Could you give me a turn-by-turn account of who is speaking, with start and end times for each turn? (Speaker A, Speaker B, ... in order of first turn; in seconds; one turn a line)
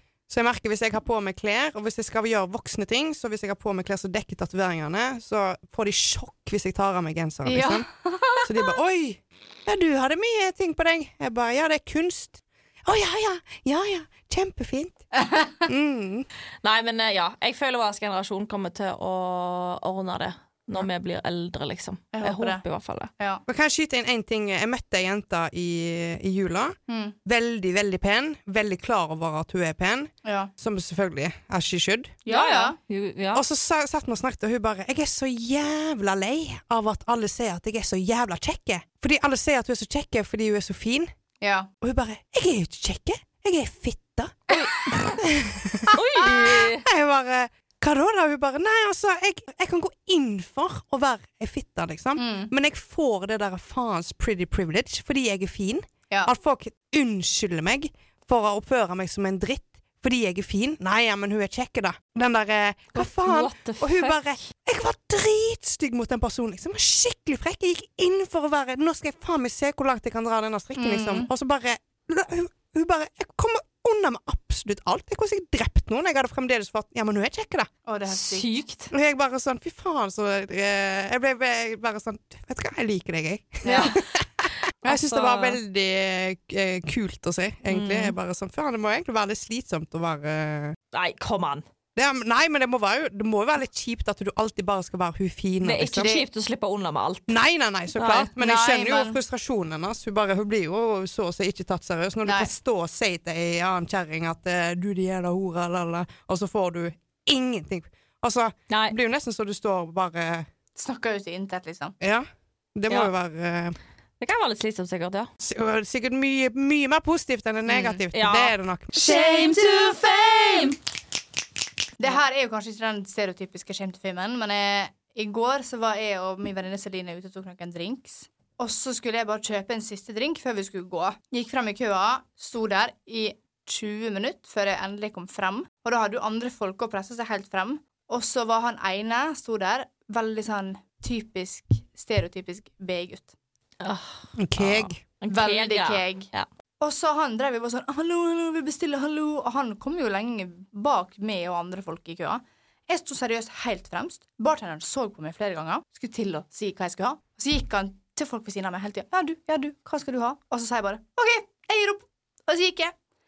Speaker A: 0.3-7.9
Speaker B: 7.5-8.7
Speaker A: 8.4-15.0
Speaker B: 15.1-15.6
Speaker A: 15.7-16.3
Speaker C: 16.6-23.1
Speaker B: 22.1-22.6
Speaker A: 23.5-32.2
Speaker B: 26.9-27.1
Speaker B: 30.2-30.5
Speaker B: 32.2-32.8
Speaker C: 32.3-33.4
Speaker A: 33.3-41.1
Speaker B: 41.4-41.7
Speaker A: 41.8-44.6
Speaker C: 44.5-45.2
Speaker A: 45.1-77.7
Speaker C: 45.9-46.9
Speaker B: 52.2-52.5
Speaker C: 62.9-64.3
Speaker B: 70.8-71.3
Speaker B: 77.8-78.5
Speaker C: 78.1-78.9
Speaker A: 78.9-90.8
Speaker B: 83.6-84.0
Speaker C: 83.7-84.0
Speaker C: 84.8-85.6
Speaker C: 87.7-88.1
Speaker C: 90.9-91.6
Speaker A: 92.0-96.1
Speaker C: 95.6-97.3
Speaker B: 96.0-96.3
Speaker A: 97.3-110.5
Speaker C: 98.0-98.3
Speaker B: 98.4-99.2
Speaker B: 102.2-102.5
Speaker C: 108.7-109.0
Speaker B: 110.8-112.0
Speaker A: 112.0-113.8
Speaker C: 114.2-115.3
Speaker A: 115.4-119.3
Speaker B: 117.7-118.0
Speaker C: 118.1-120.8
Speaker B: 119.0-120.7
Speaker B: 122.0-143.3
Speaker C: 143.8-146.5
Speaker A: 144.4-145.0
Speaker B: 145.3-146.3
Speaker B: 146.8-162.9